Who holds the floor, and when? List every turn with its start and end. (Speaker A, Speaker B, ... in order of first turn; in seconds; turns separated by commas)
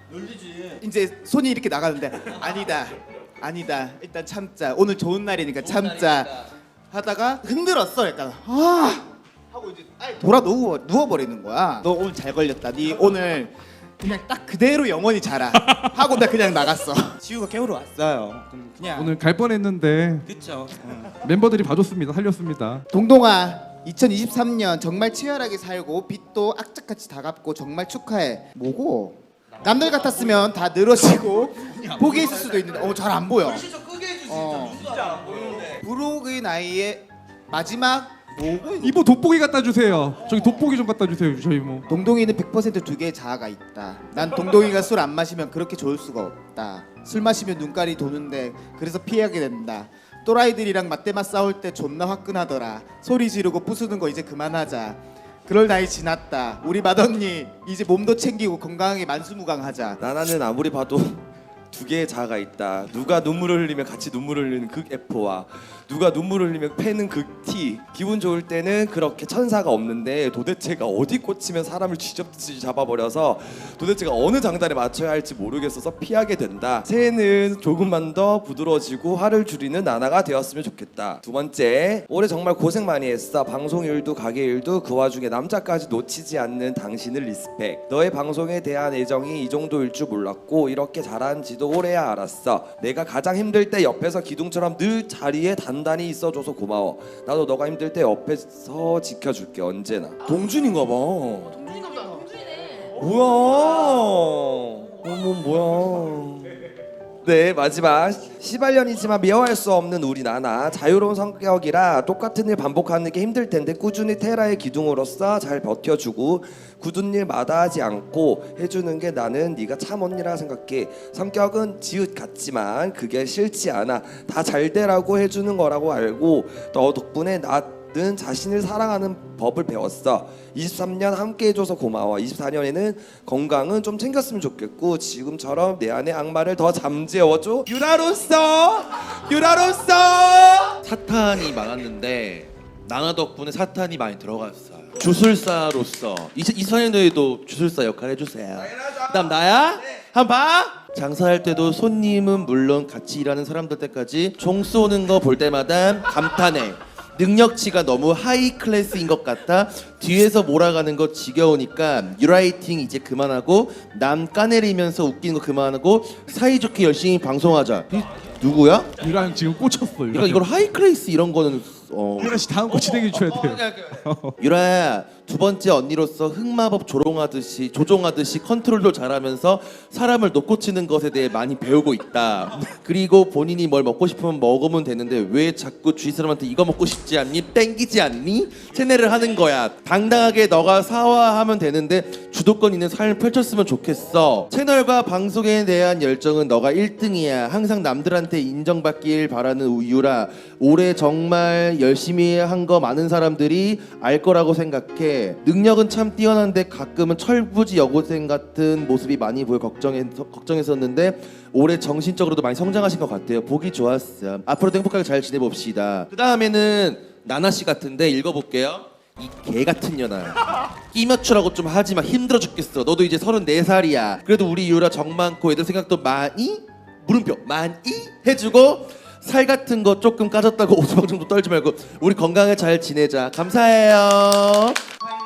Speaker A: 0.8-17.2, Speaker B: 17.2-19.0, Speaker A: 18.5-18.9, Speaker C: 18.9-20.3, Speaker B: 20.3-21.1, Speaker C: 21.2-22.8, Speaker A: 22.9-33.7, Speaker B: 33.5-35.7, Speaker A: 34.3-39.0, Speaker C: 38.8-41.9, Speaker A: 41.9-60.0, Speaker D: 60.0-101.8, Speaker D: 103.0-106.5, Speaker D: 107.2-140.8, Speaker E: 140.8-169.0, Speaker C: 168.9-170.4, Speaker E: 170.1-173.8, Speaker C: 172.2-174.4, Speaker E: 174.4-234.9